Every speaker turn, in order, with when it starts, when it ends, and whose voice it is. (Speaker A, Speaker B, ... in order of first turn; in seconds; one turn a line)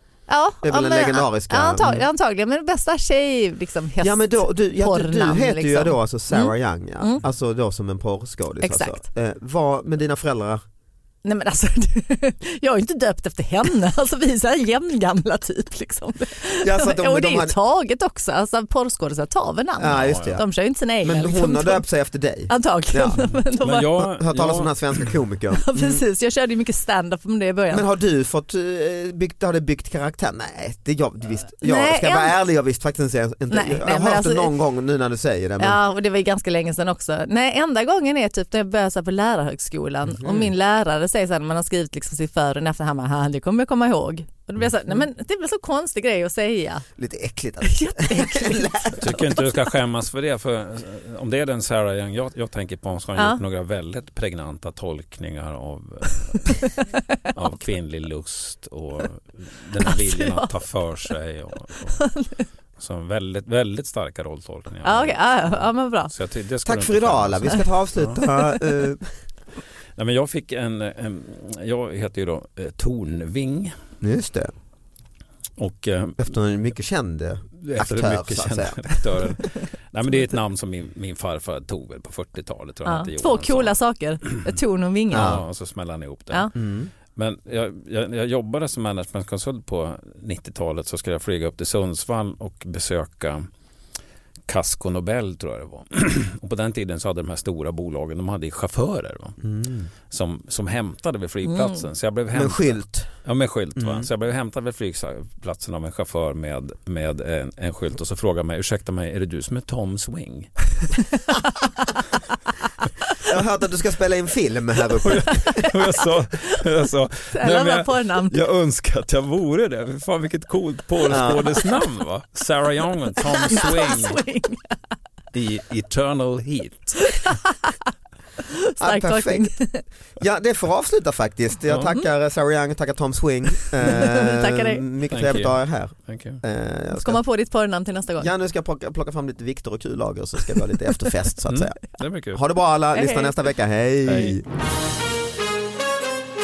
Speaker A: 0.3-7.2
Speaker B: 0.6-2.1
Speaker B: 4.0-10.6
Speaker A: 8.6-9.0
Speaker A: 11.2-21.8
Speaker B: 16.6-17.6
Speaker B: 19.8-20.4
Speaker C: 20.0-20.4
Speaker B: 21.0-23.2
Speaker A: 22.5-24.0
Speaker C: 23.2-25.1
Speaker B: 24.0-26.0
Speaker A: 25.6-27.9
Speaker B: 27.7-35.8
Speaker A: 31.6-32.3
Speaker A: 33.5-34.5
Speaker A: 35.6-46.8
Speaker B: 40.1-40.5
Speaker B: 47.0-49.2
Speaker A: 47.6-49.2
Speaker C: 49.0-56.5
Speaker A: 56.6-57.0
Speaker C: 57.3-62.0
Speaker A: 59.9-60.5
Speaker A: 62.0-62.4
Speaker C: 62.8-68.2
Speaker A: 64.8-66.1
Speaker B: 66.6-69.1
Speaker A: 68.3-68.6
Speaker C: 70.0-73.7
Speaker B: 74.0-74.5
Speaker C: 75.6-76.2
Speaker B: 76.2-79.0
Speaker C: 77.6-83.7
Speaker A: 82.8-85.3
Speaker B: 85.1-85.4
Speaker C: 85.1-86.5
Speaker B: 86.5-86.9
Speaker C: 87.1-93.5
Speaker C: 94.5-99.4
Speaker B: 99.4-99.9
Speaker C: 100.1-110.5
Speaker B: 102.3-103.1
Speaker B: 103.8-104.1
Speaker B: 113.2-115.7
Speaker C: 115.0-124.2
Speaker A: 117.3-118.4
Speaker B: 121.1-121.6
Speaker A: 123.5-124.8
Speaker C: 125.3-127.1
Speaker A: 127.2-127.7
Speaker A: 128.5-129.8
Speaker B: 128.8-129.5
Speaker B: 130.2-137.2
Speaker A: 133.8-134.8
Speaker C: 135.1-136.4
Speaker A: 136.9-138.3
Speaker B: 138.2-144.4
Speaker C: 141.5-142.4
Speaker A: 142.9-143.5
Speaker C: 144.1-144.4